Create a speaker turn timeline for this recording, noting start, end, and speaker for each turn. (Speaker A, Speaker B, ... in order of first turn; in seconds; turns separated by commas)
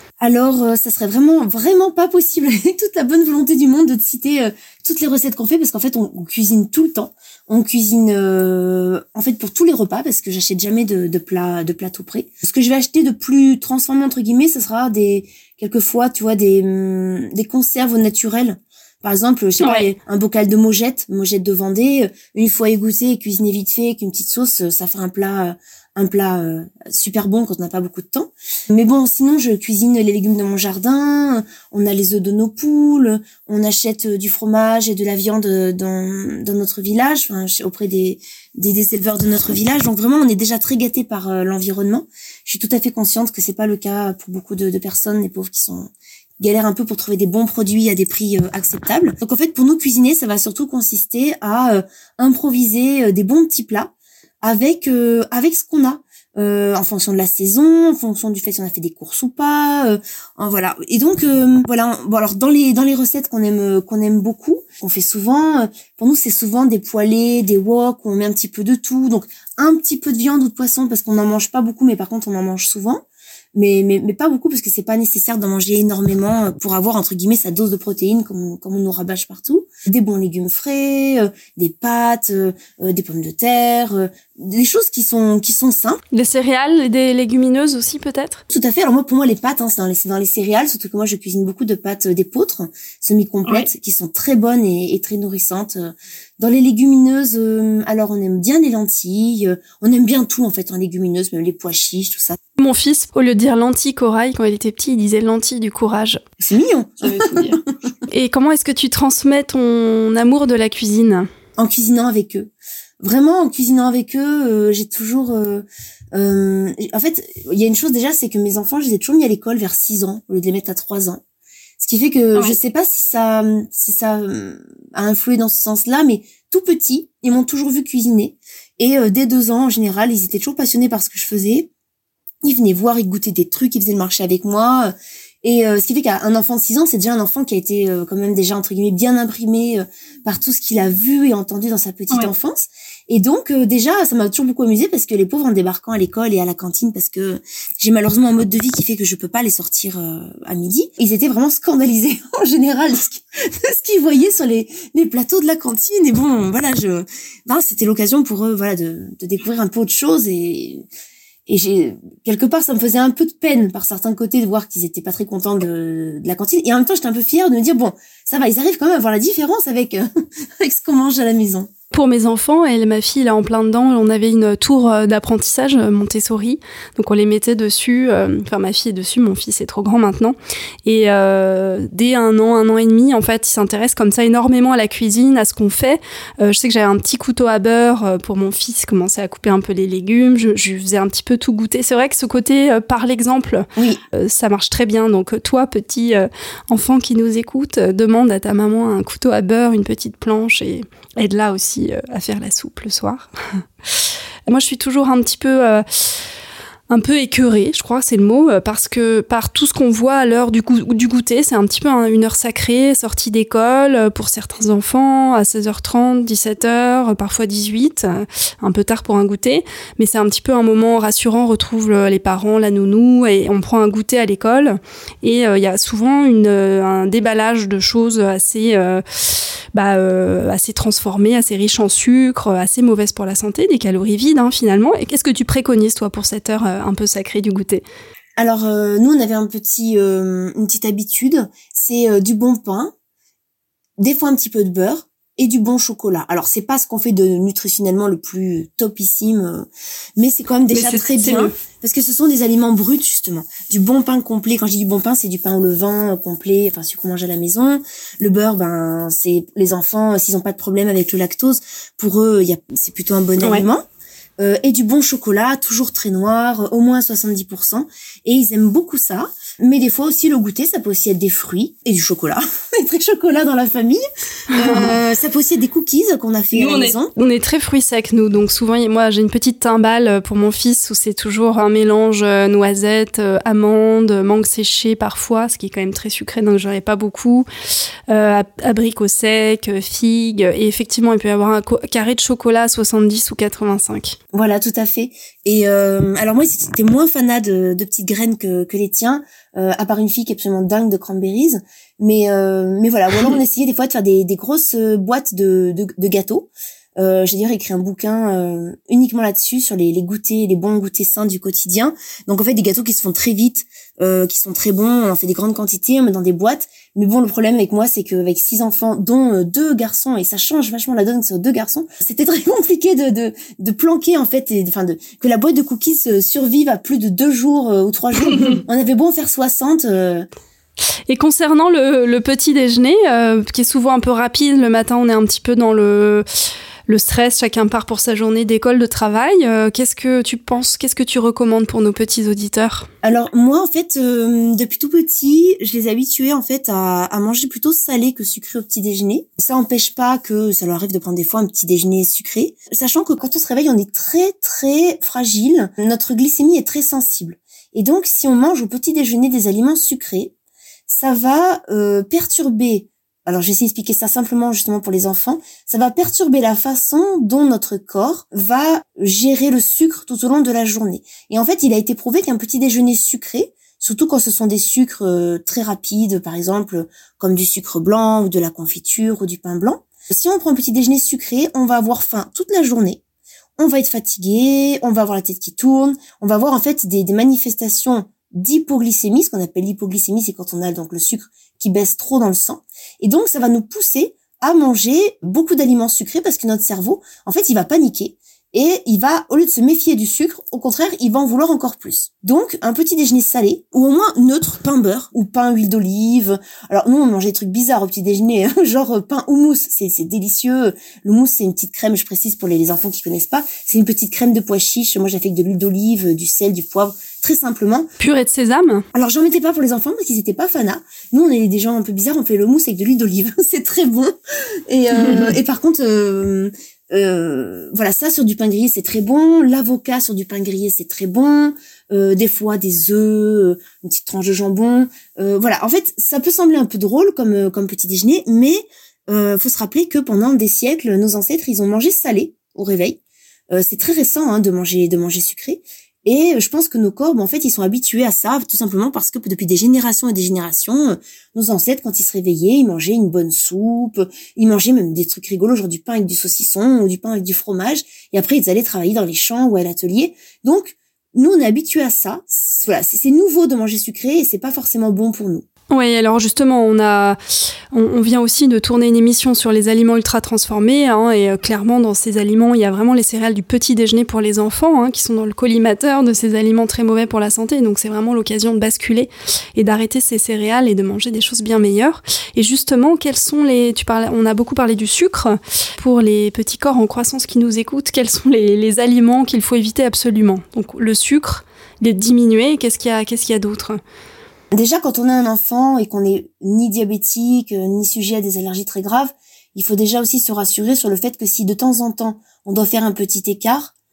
Speaker A: 0.2-86.0, Speaker B: 19.6-19.9, Speaker B: 86.1-88.4, Speaker A: 88.5-102.4, Speaker B: 102.6-106.2, Speaker A: 106.4-107.9, Speaker B: 107.0-111.3, Speaker A: 111.6-121.2, Speaker A: 121.8-131.7, Speaker A: 132.4-160.8, Speaker A: 161.5-171.7, Speaker B: 171.9-203.6, Speaker A: 193.8-194.0, Speaker B: 204.5-205.8, Speaker B: 206.9-229.0, Speaker B: 229.7-237.8, Speaker A: 238.4-242.9, Speaker A: 244.0-263.9, Speaker B: 250.7-251.5, Speaker B: 263.4-263.6, Speaker A: 264.4-277.1, Speaker B: 274.5-274.9, Speaker B: 276.5-287.5, Speaker B: 288.1-294.2, Speaker A: 294.3-330.3, Speaker B: 331.1-336.2, Speaker B: 336.9-342.9, Speaker A: 343.0-360.3, Speaker A: 360.9-383.0, Speaker A: 383.6-417.9, Speaker B: 418.0-418.8, Speaker A: 418.9-424.1, Speaker A: 424.7-443.0, Speaker A: 443.5-465.4, Speaker B: 465.7-467.2, Speaker B: 467.7-493.8, Speaker A: 494.5-503.7